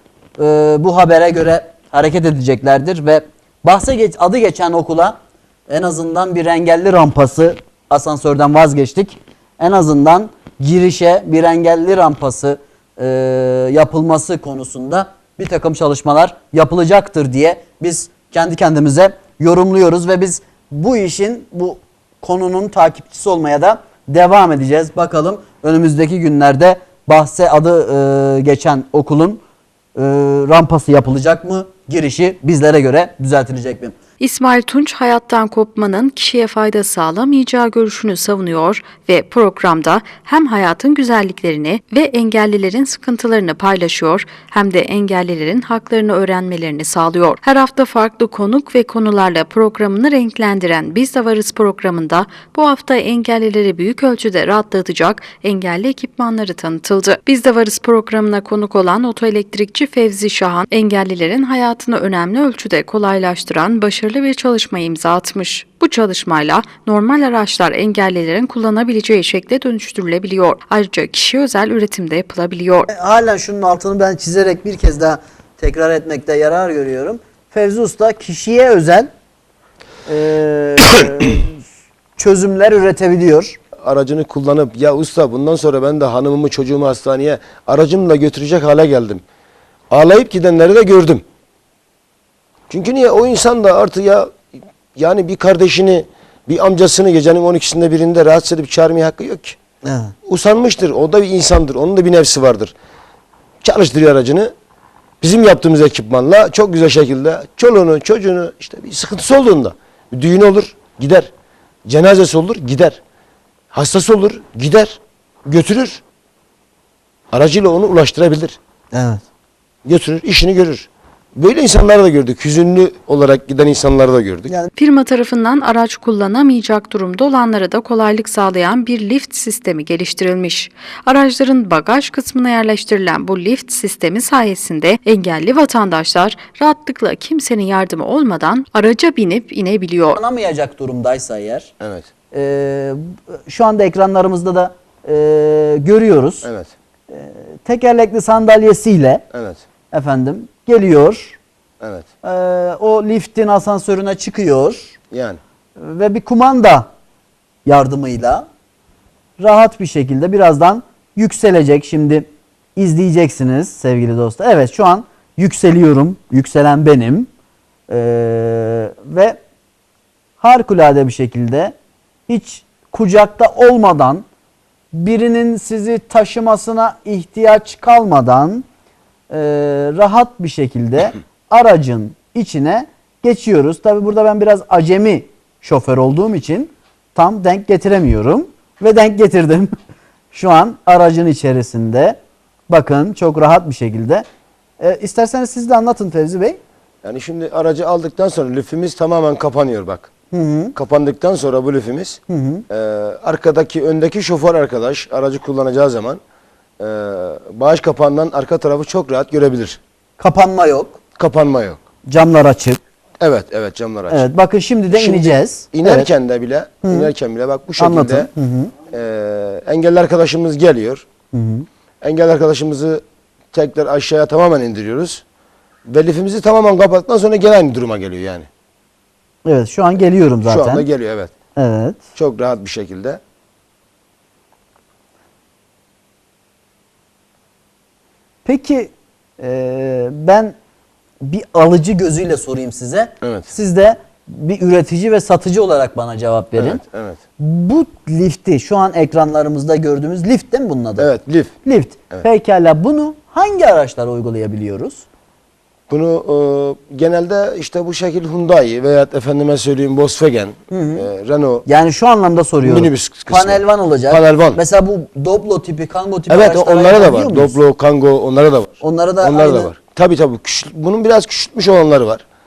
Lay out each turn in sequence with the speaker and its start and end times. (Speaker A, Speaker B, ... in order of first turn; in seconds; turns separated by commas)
Speaker A: 0.4-29.4, Speaker A: 29.9-33.9, Speaker B: 34.2-72.9, Speaker A: 72.9-79.1, Speaker A: 80.0-81.6, Speaker A: 82.2-83.6, Speaker C: 83.8-89.2, Speaker C: 89.9-91.2, Speaker C: 92.7-99.6, Speaker A: 99.8-100.1, Speaker C: 100.2-102.7, Speaker C: 103.6-104.5, Speaker C: 105.2-111.3, Speaker C: 111.9-113.0, Speaker C: 113.7-116.0, Speaker C: 117.3-118.6, Speaker A: 118.9-119.2, Speaker C: 119.8-124.5, Speaker B: 124.8-140.2, Speaker A: 140.2-141.7, Speaker C: 141.8-142.1, Speaker A: 142.3-146.5, Speaker C: 146.4-146.7, Speaker A: 147.1-149.2, Speaker C: 149.3-149.6, Speaker A: 149.9-151.4, Speaker C: 151.8-152.1, Speaker A: 152.2-155.0, Speaker C: 155.1-155.4, Speaker A: 155.8-156.9, Speaker A: 157.6-158.4, Speaker A: 159.4-167.3, Speaker A: 167.9-169.4, Speaker A: 170.4-171.7, Speaker A: 172.3-174.2, Speaker A: 174.9-178.6, Speaker A: 179.3-189.7, Speaker A: 190.3-192.2, Speaker A: 192.7-194.2, Speaker A: 194.8-196.6, Speaker C: 197.0-200.1, Speaker A: 200.3-200.7, Speaker C: 200.7-206.2, Speaker A: 202.3-202.6, Speaker C: 206.8-209.8, Speaker A: 210.2-211.0, Speaker C: 211.2-211.8, Speaker A: 212.1-212.8, Speaker C: 213.2-214.2, Speaker A: 214.1-216.1, Speaker C: 214.9-218.3, Speaker A: 216.8-217.1, Speaker A: 217.8-218.7, Speaker C: 218.9-221.0, Speaker A: 221.3-221.7, Speaker C: 222.0-225.2, Speaker C: 225.9-228.5, Speaker A: 229.4-230.9, Speaker C: 230.4-231.3, Speaker A: 231.6-232.1, Speaker C: 232.2-233.2, Speaker A: 238.4-240.5, Speaker A: 241.2-246.8, Speaker C: 243.2-243.5, Speaker C: 246.6-247.2, Speaker A: 247.4-251.1, Speaker C: 251.0-251.5, Speaker A: 251.6-255.0, Speaker C: 255.9-261.6, Speaker A: 260.7-261.1, Speaker A: 261.6-267.6, Speaker C: 262.6-264.6, Speaker C: 266.3-272.2, Speaker A: 268.8-269.7